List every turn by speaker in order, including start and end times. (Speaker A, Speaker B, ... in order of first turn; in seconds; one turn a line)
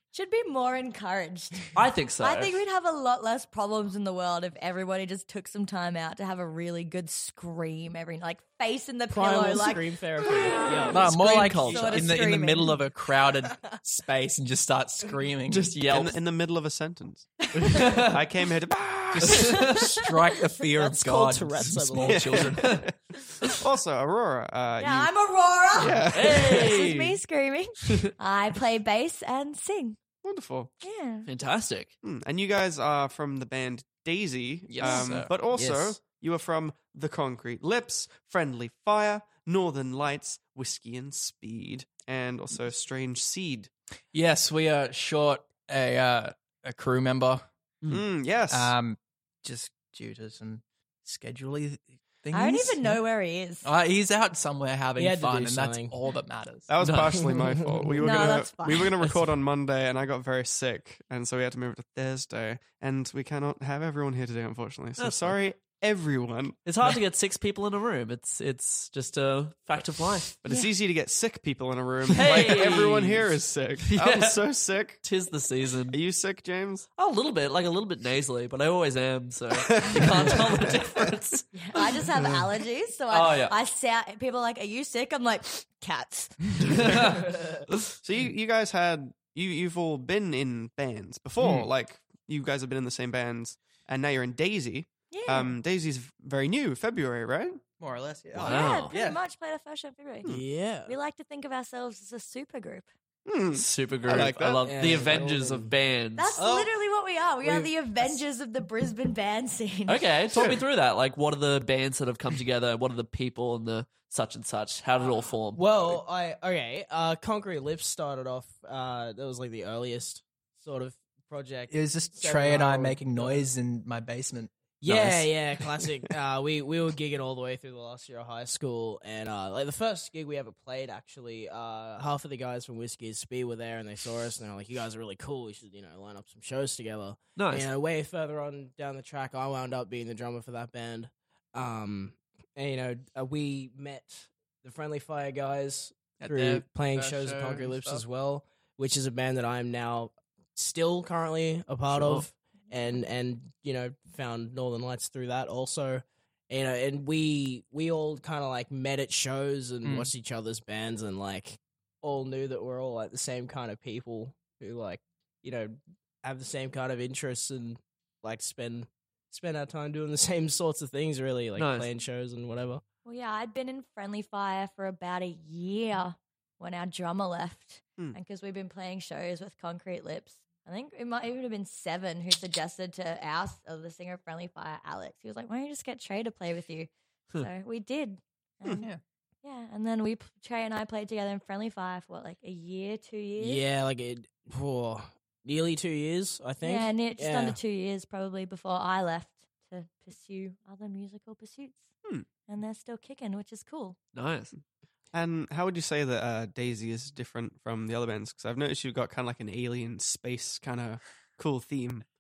Speaker A: 0.1-9.8
Speaker B: 1.8-2.6
Speaker C: 9.1-11.6
Speaker A: 10.3-12.8
Speaker D: 10.9-15.8
Speaker B: 11.0-12.1
Speaker B: 15.5-16.2
Speaker E: 15.9-19.7
Speaker B: 17.5-18.2
Speaker D: 19.1-22.8
Speaker B: 19.3-19.9
Speaker C: 20.8-22.4
Speaker E: 22.1-25.1
Speaker B: 22.6-22.8
Speaker A: 24.8-30.0
Speaker E: 25.8-26.8
Speaker B: 26.1-27.2
Speaker E: 30.2-30.7
Speaker A: 30.8-31.3
Speaker B: 31.3-31.9
Speaker E: 32.0-43.7
Speaker D: 34.7-35.2
Speaker B: 34.7-35.3
Speaker C: 35.5-36.0
Speaker D: 44.1-47.5
Speaker E: 47.9-48.7
Speaker D: 48.5-53.0
Speaker A: 52.3-53.7
Speaker D: 53.6-56.7
Speaker C: 55.0-55.9
Speaker E: 56.7-66.9
Speaker B: 56.8-57.4
Speaker C: 57.1-58.1
Speaker A: 58.0-58.9
Speaker B: 65.0-65.4
Speaker B: 66.7-70.4
Speaker E: 70.4-75.0
Speaker B: 72.1-73.3
Speaker B: 73.9-74.4
Speaker B: 75.0-76.0
Speaker E: 75.9-76.9
Speaker B: 77.0-81.5
Speaker E: 79.5-81.1
Speaker A: 81.5-87.0
Speaker B: 83.1-83.5
Speaker B: 86.8-87.9
Speaker E: 88.0-97.6
Speaker A: 95.1-95.6
Speaker D: 97.8-99.2
Speaker B: 98.4-98.9
Speaker A: 98.4-100.3
Speaker C: 100.2-100.9
Speaker A: 100.8-102.9
Speaker E: 103.3-104.7
Speaker B: 103.5-106.4
Speaker C: 104.2-105.7
Speaker A: 106.2-110.1
Speaker C: 106.4-106.7
Speaker C: 107.4-108.1
Speaker B: 109.9-115.7
Speaker E: 110.3-110.6
Speaker C: 115.5-123.4
Speaker D: 121.7-125.7
Speaker C: 124.8-172.8
Speaker B: 137.4-137.7
Speaker D: 146.2-148.0
Speaker B: 151.9-152.3
Speaker D: 159.8-160.1
Speaker B: 171.6-171.9
Speaker A: 173.1-188.9
Speaker A: 189.4-193.6
Speaker C: 193.4-197.6
Speaker A: 196.6-201.9
Speaker A: 202.5-204.0
Speaker B: 204.1-204.5
Speaker E: 205.1-212.1